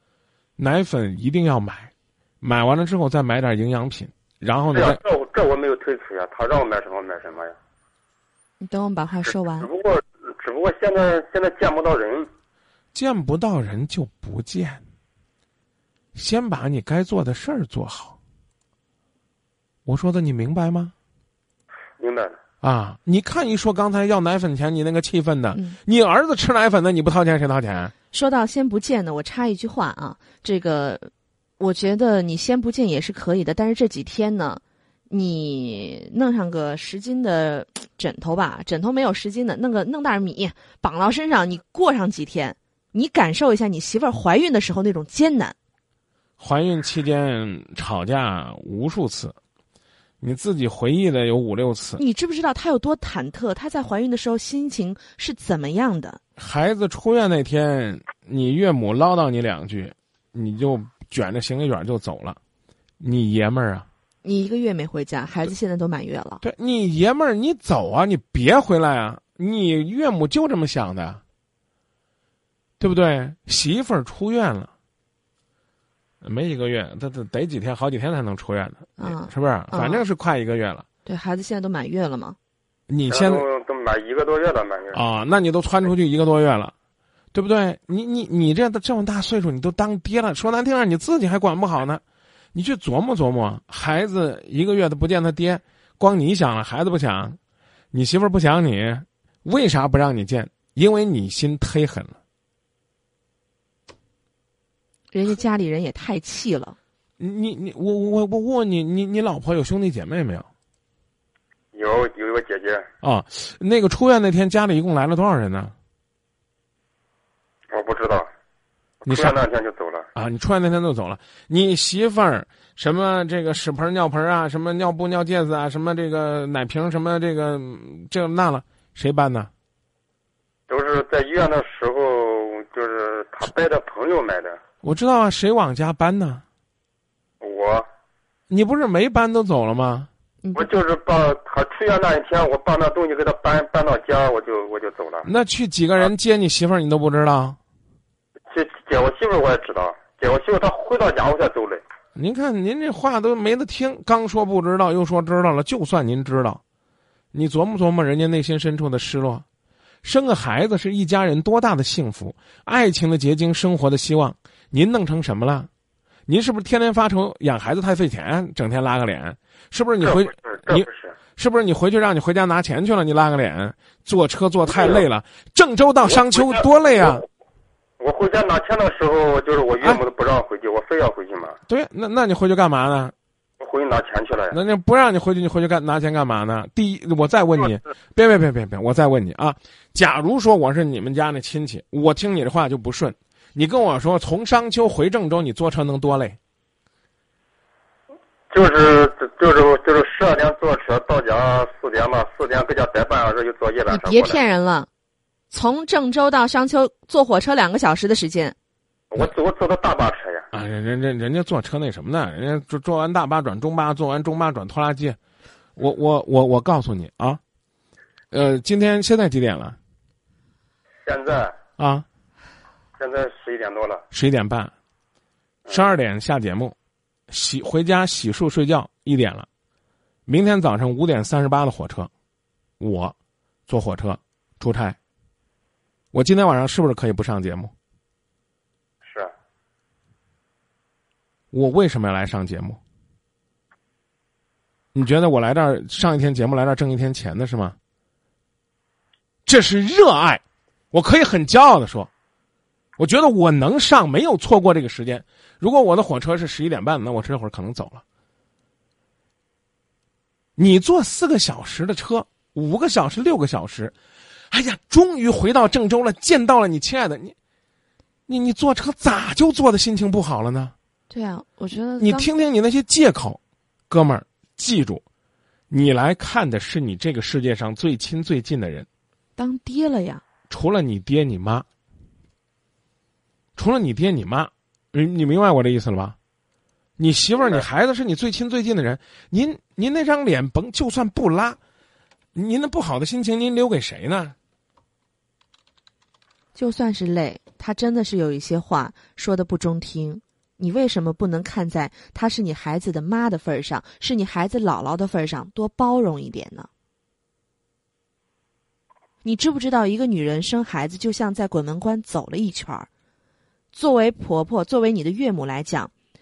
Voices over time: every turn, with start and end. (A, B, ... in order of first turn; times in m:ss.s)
0:00.6-0:05.0 A
0:04.7-0:07.6 B
0:08.6-0:09.7 C
0:09.6-0:12.3 B
0:12.9-0:14.8 A
0:16.2-0:18.2 A
0:19.9-0:20.9 A
0:22.0-0:22.4 B
0:22.6-0:27.9 A
0:25.5-0:25.8 C
0:28.1-0:45.6 C
0:46.4-0:49.4 A
0:50.2-0:52.0 A
0:52.0-0:56.2 C
0:56.4-1:02.4 A
1:03.0-1:03.9 A
1:04.2-1:06.4 C
1:06.4-1:11.2 A
1:12.8-1:14.7 A
1:16.2-1:20.9 A
1:19.0-1:20.0 C
1:21.0-1:22.4 C
1:22.9-1:23.4 A
1:23.1-1:25.0 B
1:24.9-1:26.7 A
1:27.3-1:32.0 A
1:32.5-1:37.4 A
1:37.9-1:42.2 A
1:45.1-1:46.8 C
1:47.2-1:50.5 A
1:51.7-1:52.9 B
1:53.0-1:55.7 A
1:57.7-1:58.3 B
1:59.0-2:00.1 B
1:59.1-1:59.4 A
2:00.2-2:09.5 A
2:10.7-2:14.6 B
2:14.8-2:16.4 A
2:17.4-2:17.9 B
2:18.5-2:20.1 A
2:20.6-2:25.3 B
2:25.2-2:27.6 A
2:28.5-2:31.8 B
2:32.2-2:36.6 A
2:37.3-2:39.4 A
2:40.0-2:45.7 A
2:46.3-2:57.2 A
2:50.0-2:51.2 B
2:54.7-2:55.0 B
2:56.0-2:57.2 B
2:58.0-3:01.6 B
3:01.7-3:03.1 A
3:03.6-3:04.6 B
3:04.5-3:16.4 A
3:18.5-3:24.4 B
3:23.9-3:24.9 C
3:25.5-3:28.6 C
3:29.1-3:30.5 B
3:30.5-3:35.2 A
3:35.8-3:37.4 A
3:38.3-3:39.8 A
3:41.0-3:41.6 B
3:41.8-3:42.1 A
3:43.0-3:44.0 B
3:44.1-3:44.7 A
3:45.7-3:45.9 B
3:45.7-3:46.8 A
3:47.3-3:49.5 A
3:50.3-3:52.1 A
3:52.8-3:53.2 A
3:53.7-3:55.0 A
3:56.1-3:57.7 A
3:59.0-3:59.3 B
4:01.5-4:02.8 A
4:04.9-4:07.8 A
4:09.5-4:12.1 A
4:13.0-4:18.0 A
4:20.6-4:23.9 A
4:24.5-4:27.4 A
4:28.3-4:30.7 A
4:31.1-4:32.3 C
4:32.0-4:35.0 A
4:35.7-4:38.9 A
4:39.4-4:40.2 C
4:40.5-4:41.6 A
4:43.6-4:46.2 A
4:47.0-4:51.6 A
4:47.4-4:47.7 B
4:52.4-4:54.4 A
4:56.6-5:06.7 C
5:09.2-5:12.9 C
5:13.7-5:15.9 C